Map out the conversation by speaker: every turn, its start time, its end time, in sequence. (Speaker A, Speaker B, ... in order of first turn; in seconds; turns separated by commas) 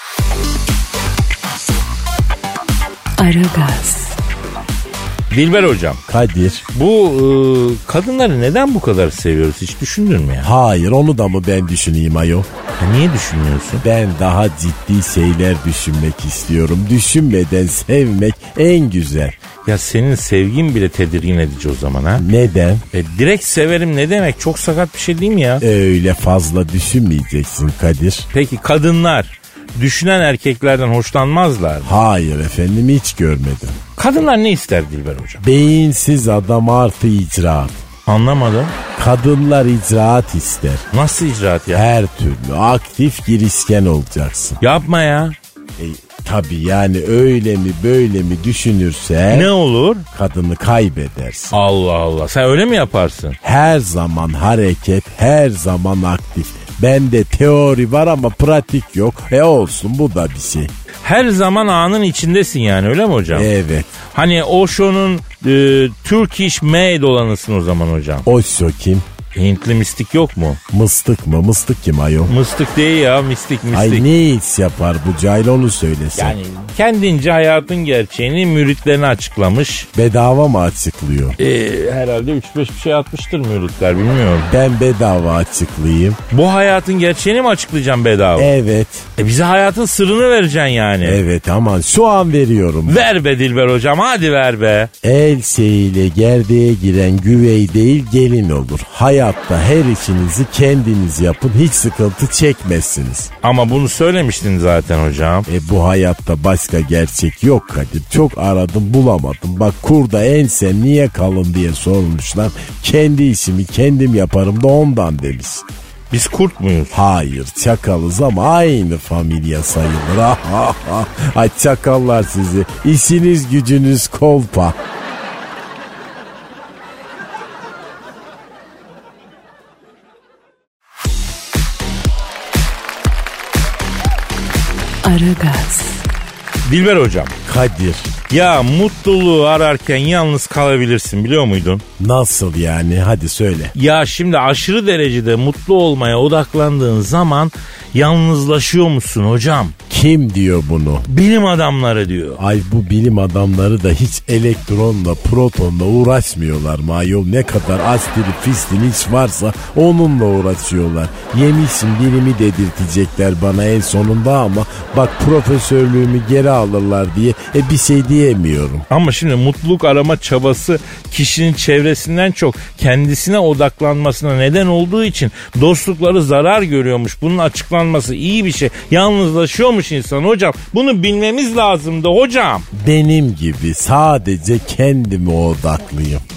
Speaker A: 3.2-4.2, Speaker B: 5.3-6.0, Speaker C: 6.1-6.7, Speaker B: 6.7-10.5, Speaker C: 10.4-12.5, Speaker B: 12.8-13.8, Speaker C: 13.8-19.4, Speaker B: 19.6-22.2, Speaker C: 22.2-22.9, Speaker B: 22.9-25.6, Speaker C: 25.6-28.3, Speaker B: 28.3-31.9, Speaker C: 31.8-33.8, Speaker B: 34.0-35.4, Speaker C: 35.4-37.8, Speaker B: 38.1-38.8, Speaker C: 39.0-40.9, Speaker B: 40.9-41.9, Speaker C: 41.7-44.6, Speaker B: 44.6-45.4, Speaker C: 45.8-49.5, Speaker B: 49.3-50.1, Speaker C: 50.1-51.5, Speaker B: 51.5-53.4, Speaker C: 53.4-60.7, Speaker B: 61.0-63.5, Speaker C: 63.3-63.9, Speaker B: 64.1-68.3, Speaker C: 68.3-69.1, Speaker B: 69.3-70.6, Speaker C: 70.7-72.3, Speaker B: 72.3-74.1, Speaker C: 73.7-76.4, Speaker B: 76.2-79.9, Speaker C: 79.9-81.4, Speaker B: 81.4-84.5, Speaker C: 84.5-86.2, Speaker B: 86.3-88.5, Speaker C: 88.4-89.1, Speaker B: 89.2-91.2, Speaker C: 91.0-93.0, Speaker B: 92.9-94.9, Speaker C: 95.0-103.3, Speaker B: 103.4-105.5, Speaker C: 105.5-115.7, Speaker B: 116.1-117.0, Speaker C: 116.9-124.8, Speaker A: 135.0-136.0, Speaker B: 136.7-137.4, Speaker C: 137.4-138.1, Speaker B: 138.3-141.8, Speaker C: 142.0-143.7, Speaker B: 143.8-149.8, Speaker C: 149.9-151.1, Speaker B: 151.1-152.4, Speaker C: 152.4-168.9, Speaker B: 168.9-182.7, Speaker C: 182.7-186.2